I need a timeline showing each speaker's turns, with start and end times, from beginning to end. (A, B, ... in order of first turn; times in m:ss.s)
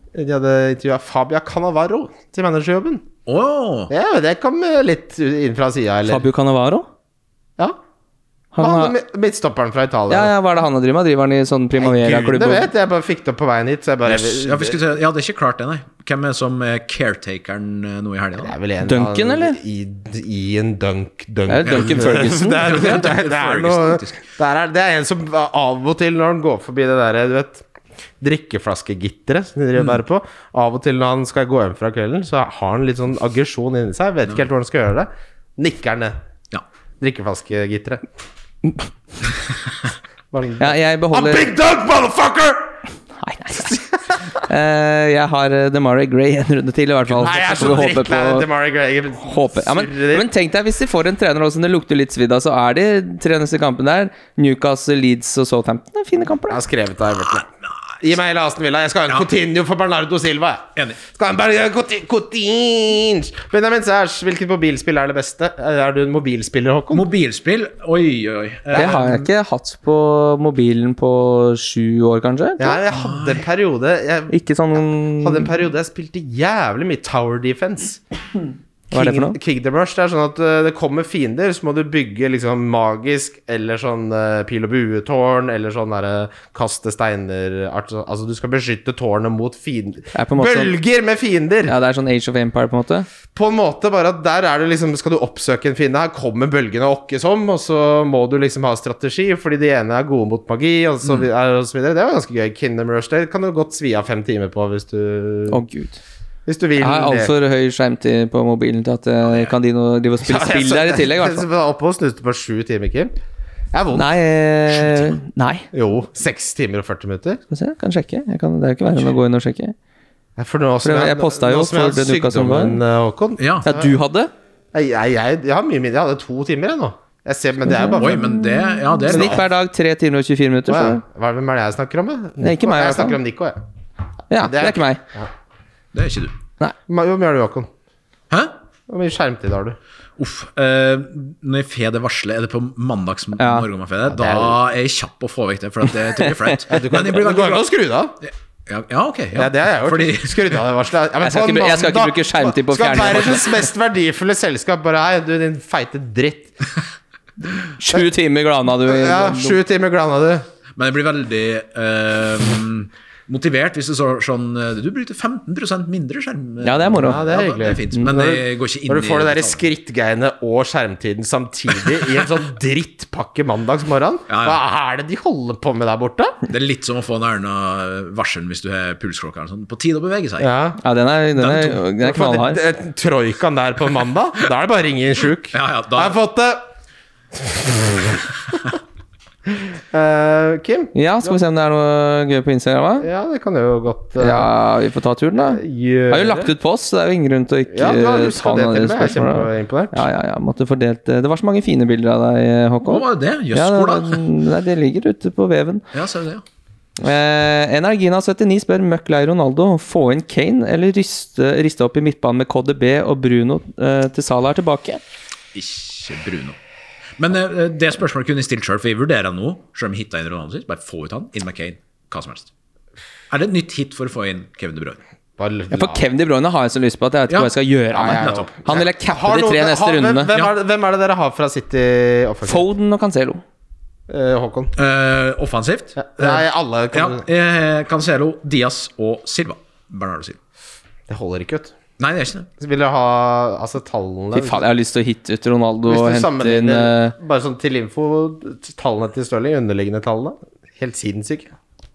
0:00.1-0:03.0 A
0:03.3-0:03.9 B
0:03.9-0:06.2 A
0:06.0-0:06.8 C
0:08.5-0:08.9 C
0:08.6-0:10.3 A
0:10.1-0:12.7 C
0:11.8-0:14.8 A
0:14.0-0:18.5 B
0:18.4-0:27.6 A
0:18.8-0:19.6 C
0:21.5-0:22.8 C
0:21.6-0:24.3 B
0:28.2-0:36.2 A
0:37.0-0:38.0 A
0:40.3-0:42.8 A
0:40.6-0:41.5 C
0:43.2-0:43.8 C
0:44.3-0:48.4 C
0:47.2-0:50.3 A
0:47.2-0:47.9 B
0:49.2-0:56.6 C
0:56.5-0:57.4 A
0:58.0-1:07.0 A
1:06.9-1:09.2 B
1:08.7-1:09.2 A
1:08.7-1:12.8 C
1:12.6-1:18.0 A
1:12.9-1:13.4 B
1:14.3-1:15.5 C
1:18.9-1:31.7 A
1:18.9-1:19.4 C
1:30.1-1:30.7 C
1:31.6-1:33.1 C
1:33.3-1:45.6 A
1:45.5-1:46.0 C
1:46.4-1:47.3 A
1:46.8-1:51.4 C
1:49.2-1:49.5 B
1:50.2-1:53.1 A
1:53.7-1:54.2 A
1:53.9-1:55.7 C
1:55.7-1:57.4 A
1:57.5-1:59.7 C
2:00.4-2:03.9 A
2:00.8-2:02.8 C
2:03.4-2:03.6 B
2:03.6-2:04.3 C
2:04.7-2:08.4 A
2:07.7-2:11.0 C
2:07.9-2:09.4 B
2:09.1-2:09.4 A
2:10.7-2:13.6 A
2:12.4-2:13.2 C
2:14.3-2:15.0 C
2:14.4-2:15.3 A
2:15.9-2:16.3 B
2:16.9-2:17.7 A
2:18.9-2:19.8 A
2:20.2-2:27.6 B
2:23.4-2:23.7 C
2:24.1-2:24.6 A
2:26.7-2:28.2 A
2:28.2-2:30.6 B
2:29.3-2:36.5 A
2:31.2-2:33.6 C
2:37.8-2:39.6 C
2:38.8-2:40.4 A
2:40.8-2:49.6 B
2:46.6-2:47.2 C
2:46.9-2:56.4 A
2:54.3-2:54.6 B
2:56.5-3:00.5 B
3:00.4-3:00.8 A
3:00.8-3:02.6 C
3:01.4-3:01.8 B
3:02.0-3:06.6 A
3:05.5-3:06.2 B
3:07.3-3:08.2 A
3:09.5-3:11.4 A
3:10.9-3:13.1 C
3:13.0-3:14.5 A
3:14.2-3:25.8 C
3:15.5-3:16.5 A
3:17.7-3:20.0 A
3:22.8-3:24.2 B
3:25.9-3:26.4 B
3:27.0-3:35.0 C
3:35.5-3:36.6 B
3:37.2-3:42.5 B
3:43.3-3:45.0 B
3:45.4-3:46.0 A
3:45.7-3:50.3 C
3:47.9-3:52.7 A
3:48.0-3:48.5 B
3:52.4-3:53.4 C
3:54.1-3:54.7 A
3:54.8-4:00.4 B
3:56.0-3:57.2 A
4:01.1-4:01.7 A
4:02.0-4:02.5 B
4:02.6-4:04.6 A
4:04.3-4:07.1 C
4:05.8-4:11.5 A